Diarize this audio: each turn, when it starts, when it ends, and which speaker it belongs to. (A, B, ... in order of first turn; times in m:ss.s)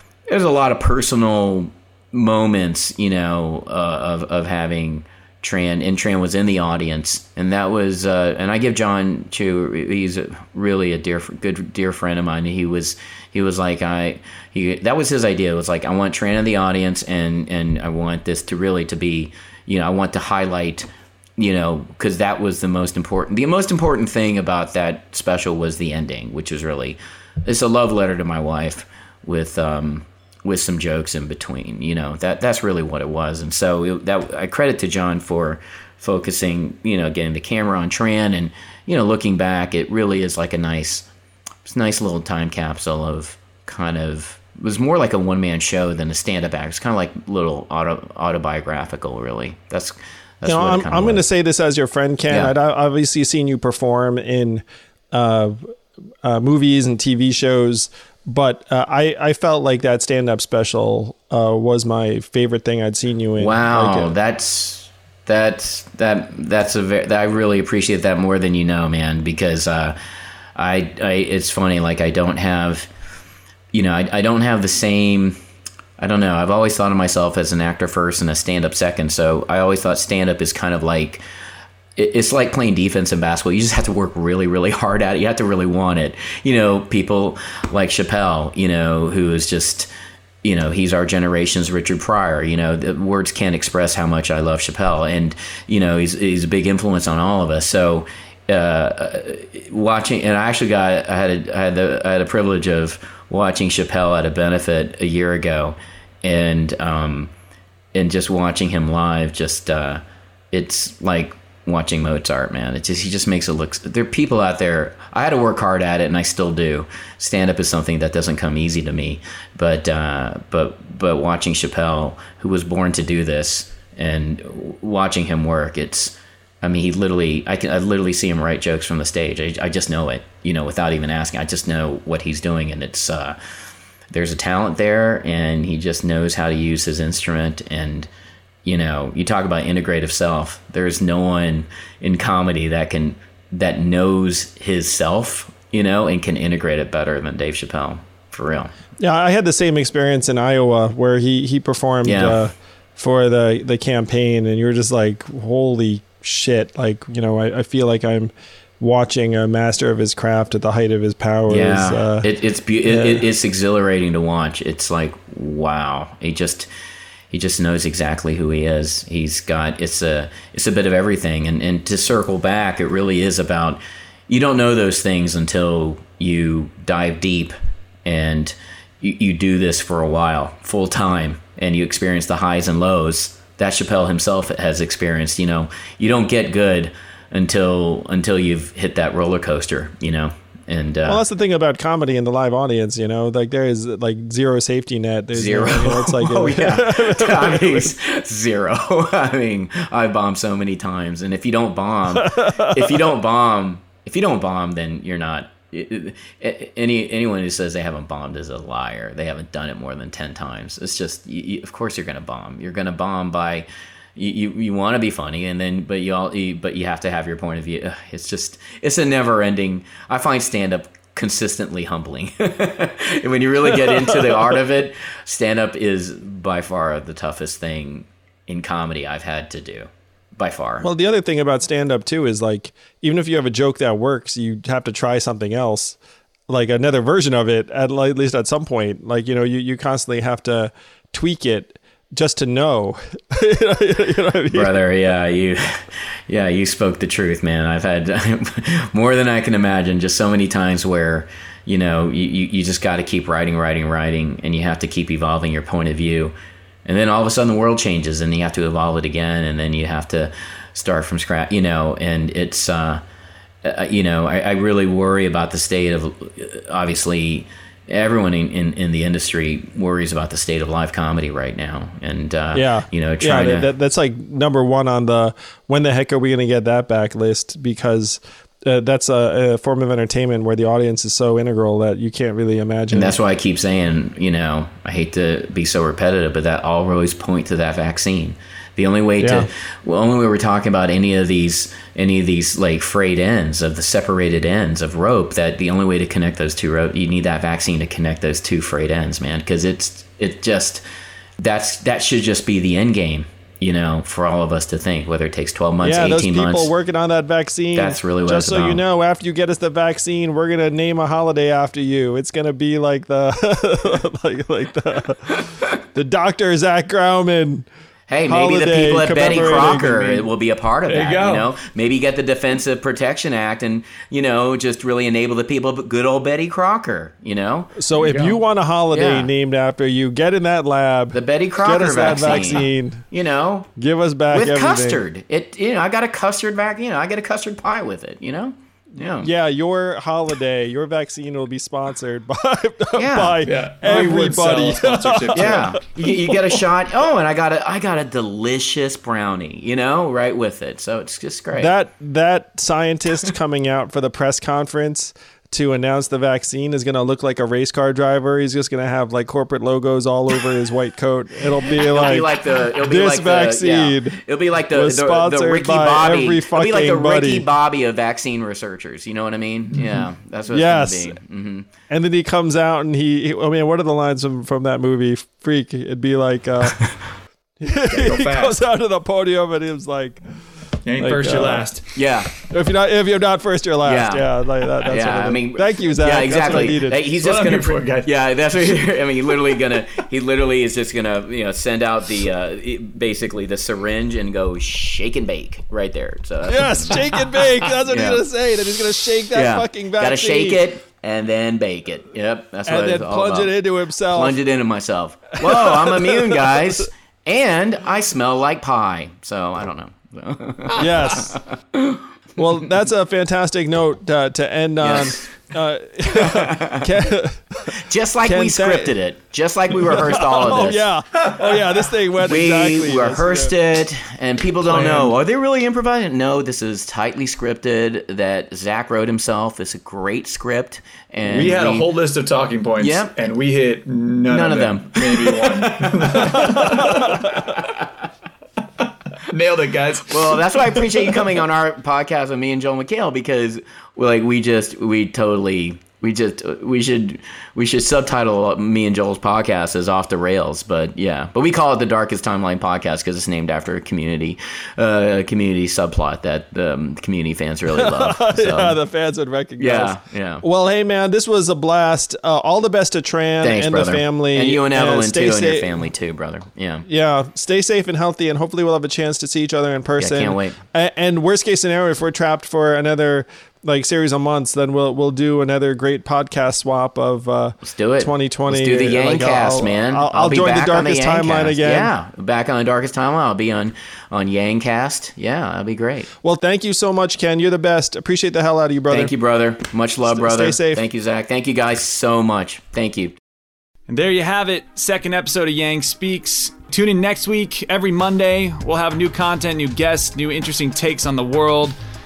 0:00.3-0:41.1 A
0:41.6-0:51.2 A
0:50.4-0:55.7 B
0:56.2-1:04.1 B
1:03.4-1:10.0 A
1:10.6-1:12.9 A
1:13.7-1:15.4 A
1:16.0-1:21.2 A
1:22.0-1:29.9 A
1:30.4-1:47.3 A
1:47.9-2:13.4 A
2:14.1-2:18.1 A
2:18.6-2:28.7 A
2:29.0-2:42.3 B
2:32.0-2:32.4 A
2:41.5-2:46.7 A
2:42.9-2:43.2 B
2:47.3-2:57.5 A
2:58.0-3:11.2 A
3:11.1-3:17.9 B
3:15.3-3:50.9 A
3:22.1-3:23.2 B
3:43.6-3:44.6 B
3:50.8-3:56.0 B
3:56.5-4:04.8 B
4:04.5-4:16.3 A
4:16.8-4:23.0 A
4:23.6-4:33.7 A
4:32.5-4:43.2 B
4:42.9-5:00.8 A
4:49.2-4:49.5 B
5:01.4-5:06.7 A
5:05.8-5:17.7 B
5:07.8-5:08.8 A
5:18.1-5:27.7 A
5:18.3-5:20.2 B
5:20.9-5:21.5 C
5:27.8-5:33.0 B
5:27.9-5:28.4 C
5:28.9-5:29.3 A
5:31.1-5:33.7 A
5:33.8-5:35.0 B
5:34.3-5:39.3 A
5:39.2-5:46.6 B
5:43.0-5:43.4 A
5:43.4-5:45.8 C
5:45.4-5:51.7 A
5:51.5-6:07.5 B
6:01.7-6:11.7 A
6:10.0-6:11.2 B
6:11.9-6:16.8 B
6:17.6-6:20.2 B
6:17.9-6:18.6 C
6:20.8-6:21.8 C
6:21.0-6:21.7 B
6:22.0-6:22.3 A
6:22.4-6:27.0 B
6:23.8-6:38.2 A
6:27.2-6:28.8 C
6:36.4-6:40.7 B
6:39.3-6:43.5 A
6:42.7-6:44.4 B
6:44.1-6:52.0 A
6:45.4-6:46.9 B
6:50.8-6:51.4 B
6:52.4-6:59.0 B
6:54.8-6:55.3 A
6:56.1-6:57.0 A
6:57.7-7:00.8 A
6:59.8-7:03.6 B
7:02.2-7:11.9 A
7:04.7-7:05.1 C
7:11.2-7:17.4 C
7:12.8-7:13.2 A
7:14.3-7:17.7 A
7:16.4-7:17.1 B
7:19.3-7:20.4 C
7:20.1-7:38.8 A
7:37.7-7:45.7 B
7:39.6-7:40.4 A
7:43.4-7:46.8 A
7:46.9-8:01.9 B
7:50.0-7:50.6 A
7:57.6-8:06.1 A
8:06.2-8:09.1 B
8:08.9-8:13.2 A
8:10.0-8:10.8 B
8:13.9-8:21.8 C